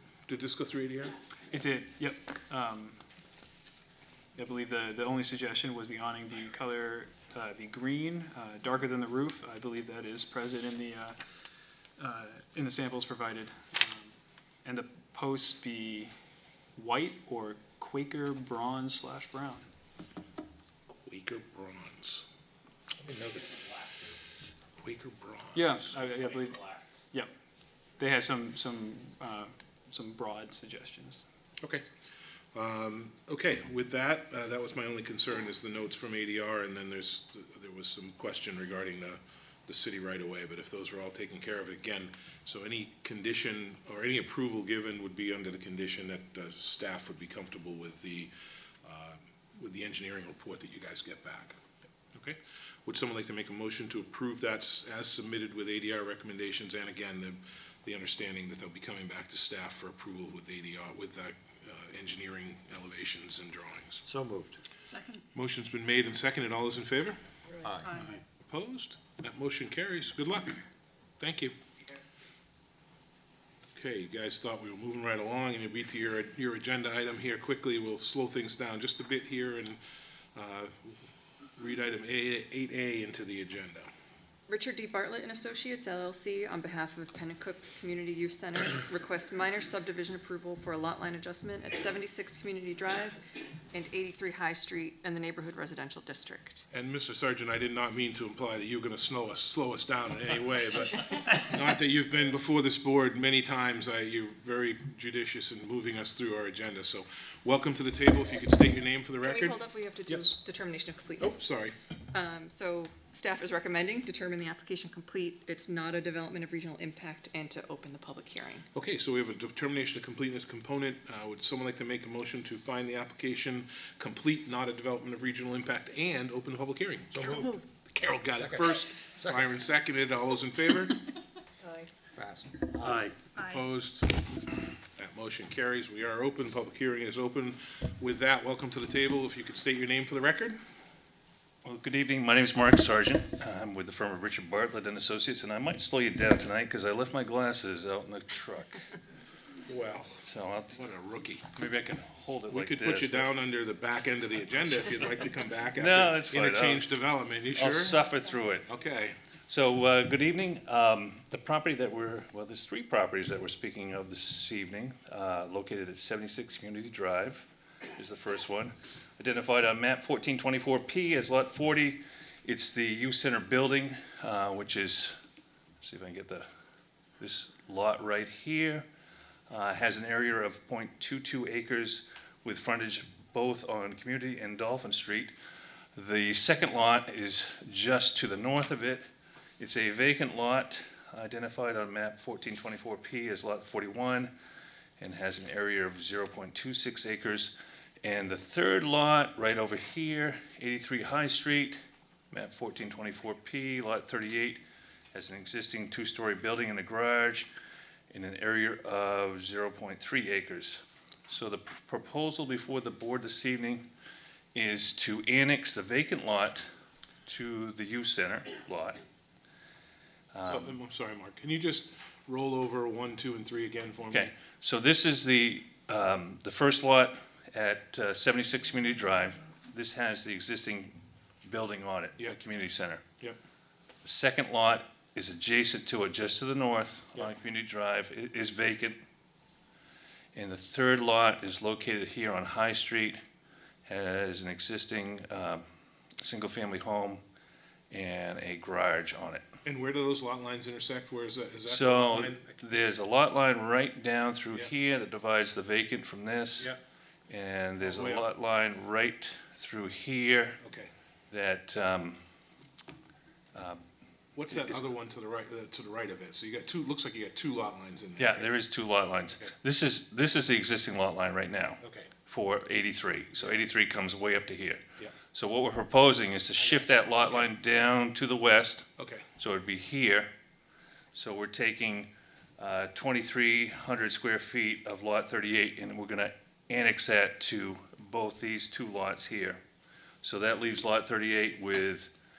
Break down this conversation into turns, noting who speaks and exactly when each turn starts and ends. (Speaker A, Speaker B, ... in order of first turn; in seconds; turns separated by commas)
Speaker A: 0.3-1.1, Speaker B: 1.5-3.0, Speaker B: 4.4-11.2, Speaker B: 12.0-14.1, Speaker B: 14.7-16.1, Speaker B: 16.8-19.7, Speaker A: 20.9-22.2, Speaker A: 23.0-23.7, Speaker A: 24.8-25.9, Speaker B: 25.5-27.3, Speaker B: 28.0-31.2, Speaker A: 32.5-48.3, Speaker A: 48.8-51.6, Speaker A: 52.1-64.0, Speaker C: 64.1-64.6, Speaker D: 64.9-65.2, Speaker A: 65.3-67.2, Speaker C: 67.6-68.0, Speaker A: 68.5-70.6, Speaker A: 71.2-71.5, Speaker A: 73.8-79.8, Speaker A: 80.3-80.9, Speaker A: 81.6-83.9, Speaker D: 84.5-93.2, Speaker D: 93.7-96.7, Speaker A: 96.7-110.4, Speaker D: 109.2-111.5, Speaker A: 111.2-111.8, Speaker D: 112.1-118.7, Speaker A: 118.7-131.0, Speaker C: 127.1-127.5, Speaker C: 128.4-128.7, Speaker C: 132.2-133.2, Speaker A: 133.3-134.2, Speaker A: 135.0-140.6, Speaker E: 141.6-148.8, Speaker A: 149.7-151.5, Speaker E: 150.3-150.8, Speaker E: 151.5-153.3, Speaker A: 152.5-158.0, Speaker E: 155.8-156.8, Speaker E: 157.6-158.7, Speaker A: 158.7-159.2, Speaker E: 159.5-175.1, Speaker E: 175.8-176.5, Speaker E: 177.2-178.8, Speaker E: 179.5-185.3, Speaker E: 185.9-189.0, Speaker E: 189.6-194.3, Speaker E: 195.0-201.8, Speaker E: 202.3-204.6, Speaker E: 205.1-207.5, Speaker E: 208.1-213.8, Speaker E: 214.6-216.7, Speaker E: 217.3-219.0, Speaker E: 220.3-220.7, Speaker A: 220.4-224.3, Speaker E: 224.1-233.0, Speaker E: 234.1-239.0, Speaker E: 240.3-243.2, Speaker E: 243.9-245.6, Speaker E: 246.2-247.2, Speaker E: 247.9-249.4, Speaker A: 249.7-252.6, Speaker E: 251.7-256.7, Speaker E: 257.3-260.6, Speaker A: 257.8-258.3, Speaker A: 260.6-260.9, Speaker E: 261.3-262.2, Speaker E: 263.5-263.9, Speaker A: 264.4-268.5, Speaker E: 264.5-264.8, Speaker E: 268.2-274.8, Speaker A: 271.8-272.1, Speaker E: 275.3-278.9, Speaker A: 276.6-277.5, Speaker A: 279.0-279.2, Speaker E: 279.4-280.3, Speaker E: 281.1-289.6, Speaker E: 290.2-292.1